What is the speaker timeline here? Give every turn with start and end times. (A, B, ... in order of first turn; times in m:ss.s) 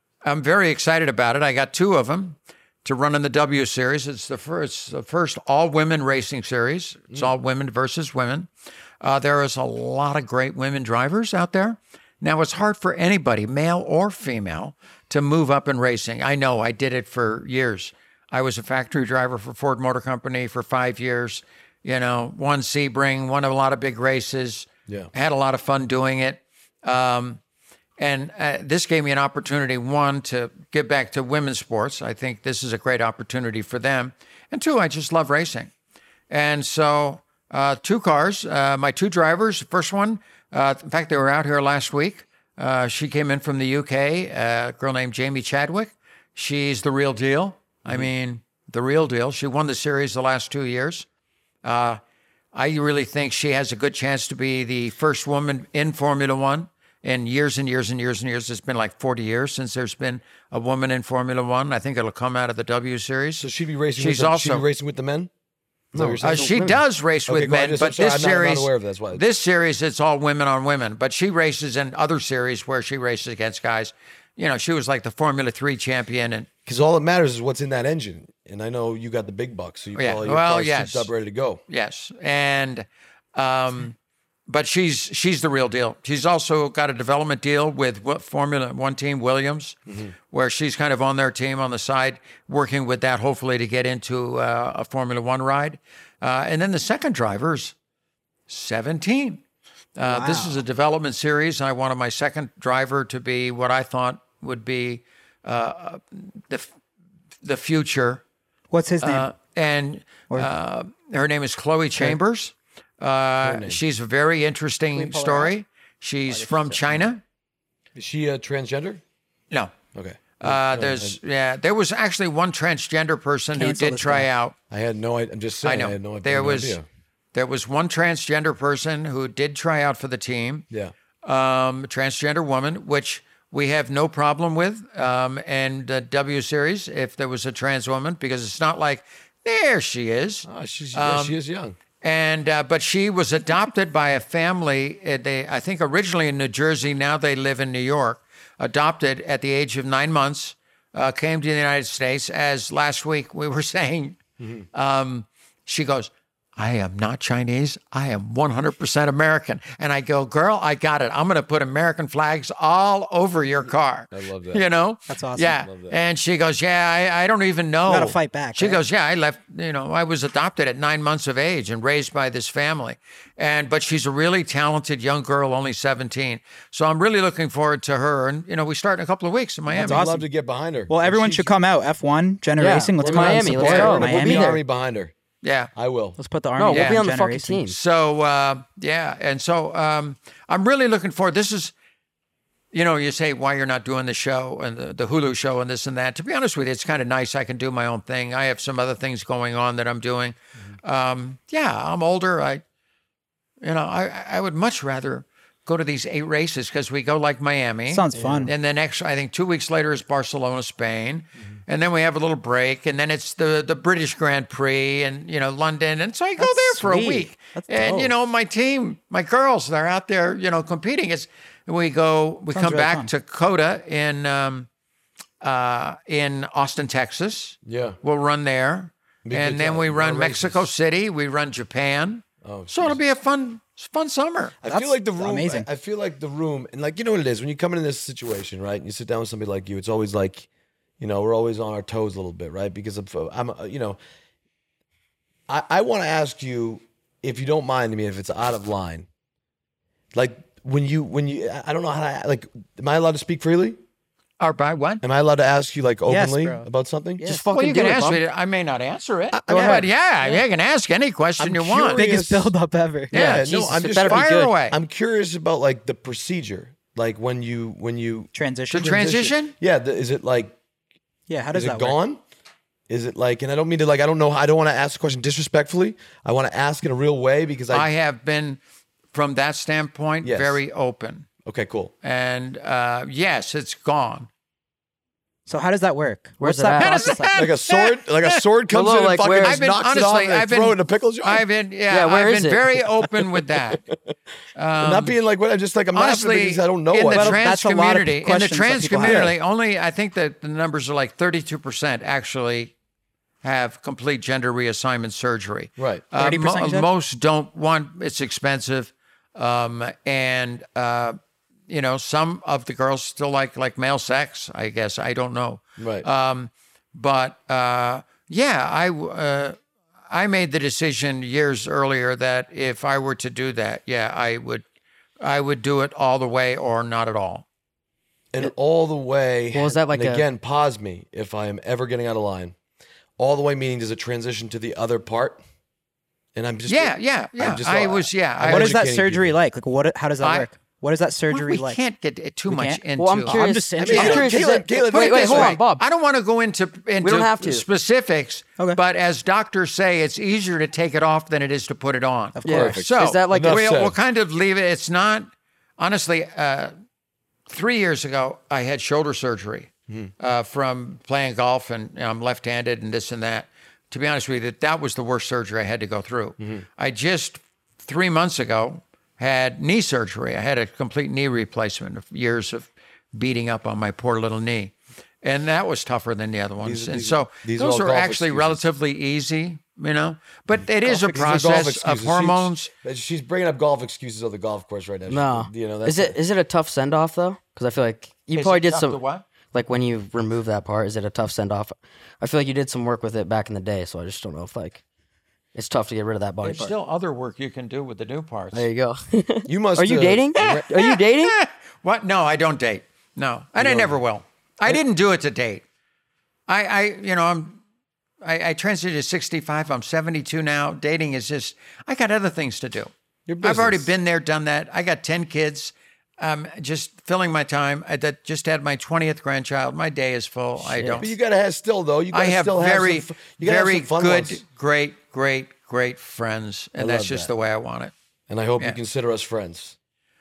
0:00.2-0:08.5 A
0:09.0-0:27.4 A
0:28.0-0:35.7 A
0:36.3-0:51.1 A
0:51.6-0:52.0 A
0:52.5-1:04.7 A
1:03.4-1:05.3 B
1:05.9-1:06.5 C
1:05.9-1:09.2 B
1:06.2-1:16.5 A
1:16.7-1:21.6 B
1:20.0-1:21.1 A
1:21.7-1:24.0 A
1:24.5-1:29.8 A
1:29.9-1:30.2 B
1:30.3-1:37.7 A
1:38.5-1:39.4 A
1:40.0-1:46.7 A
1:40.0-1:40.6 D
1:47.4-1:48.2 A
1:48.7-1:49.3 D
1:49.0-1:57.2 A
1:53.4-1:53.8 B
1:54.9-1:55.5 D
1:56.3-1:57.0 D
1:58.0-1:59.0 B
1:59.5-1:59.8 A
2:00.0-2:01.2 B
2:00.4-2:04.6 A
2:03.6-2:04.3 D
2:04.7-2:06.8 B
2:05.6-2:06.8 A
2:07.3-2:10.7 A
2:11.2-2:21.4 A
2:20.4-2:21.8 B
2:22.0-2:34.2 A
2:34.4-2:34.7 B
2:34.7-3:00.1 A
2:44.1-2:44.6 B
2:45.1-2:45.6 D
2:45.4-2:46.0 B
2:47.9-2:48.8 D
2:59.7-3:01.5 B
2:59.7-3:00.3 D
3:00.9-3:04.6 D
3:02.6-3:04.6 C
3:03.0-3:05.1 B
3:05.4-3:05.7 A
3:05.7-3:06.2 B
3:06.2-3:07.6 D
3:06.6-3:07.8 C
3:06.7-3:07.0 A
3:07.7-3:11.7 A
3:12.7-3:22.6 A
3:23.6-3:44.7 A
3:27.9-3:28.5 D
3:28.1-3:28.5 B
3:36.4-3:38.1 D
3:42.5-3:43.1 D
3:45.4-3:54.6 A
3:47.6-3:48.0 B
3:49.2-3:50.7 B
3:52.4-3:53.0 B
3:54.6-4:00.5 B
3:54.7-3:55.7 D
4:01.0-4:04.0 B
4:05.5-4:09.1 B
4:10.1-4:13.8 B
4:14.4-4:15.0 A
4:15.0-4:17.3 B
4:16.1-4:16.7 D
4:17.2-4:17.4 D
4:17.3-4:18.2 C
4:17.3-4:22.0 A
4:19.3-4:20.3 B
4:19.5-4:19.8 D
4:21.4-4:22.5 B
4:21.9-4:23.1 D
4:23.1-4:30.6 B
4:23.1-4:24.8 A
4:23.1-4:24.5 C
4:28.3-4:29.1 D
4:28.7-4:29.6 A
4:31.3-4:32.0 D
4:31.5-4:32.2 B
4:32.9-4:37.9 B
4:37.7-4:38.6 A
4:39.1-4:41.3 A
4:40.2-4:40.6 B
4:41.4-4:41.9 B
4:42.0-4:44.3 A
4:45.5-4:47.3 D
4:46.4-4:47.2 C
4:46.8-4:48.4 A
4:47.3-4:51.4 B
4:48.7-4:49.6 C
4:49.4-4:53.8 A
4:51.9-4:52.8 C
4:53.7-4:54.0 B
4:54.6-4:55.2 A
4:54.8-4:57.4 B
4:55.9-5:02.7 A
4:57.1-4:59.3 D
4:59.0-4:59.4 B
5:03.4-5:11.2 A
5:05.8-5:06.1 B
5:06.2-5:06.9 D
5:11.7-5:19.6 A
5:15.8-5:16.1 B
5:20.1-5:24.6 A
5:25.2-5:27.4 A
5:28.3-5:32.6 B
5:29.5-5:30.2 C
5:33.2-5:35.4 B
5:36.4-5:39.4 B
5:36.7-5:38.8 A
5:38.5-5:41.8 D
5:40.2-5:40.5 A
5:41.3-5:43.4 A
5:42.5-5:44.4 D
5:43.0-5:45.8 C
5:43.8-5:45.6 B
5:43.9-5:44.3 A
5:44.9-5:56.7 A
5:47.0-5:47.7 C
5:52.4-5:52.8 D
5:52.4-5:53.6 C
5:52.5-5:54.0 B
5:57.5-6:22.7 A
6:06.4-6:06.6 B
6:16.6-6:18.6 B
6:20.8-6:26.2 B
6:25.1-6:29.0 C
6:28.4-6:29.2 A
6:29.5-6:34.8 C
6:35.6-6:36.7 C
6:36.4-6:38.7 A
6:38.5-6:41.4 C
6:39.5-6:40.7 B
6:40.4-6:45.6 A
6:43.6-6:44.0 B
6:46.5-6:47.6 A
6:48.2-6:52.9 A
6:53.3-6:53.9 B
6:53.4-7:01.1 A
7:00.7-7:01.0 C
7:01.0-7:04.4 B
7:02.1-7:07.9 A
7:06.8-7:07.3 B
7:08.3-7:09.8 B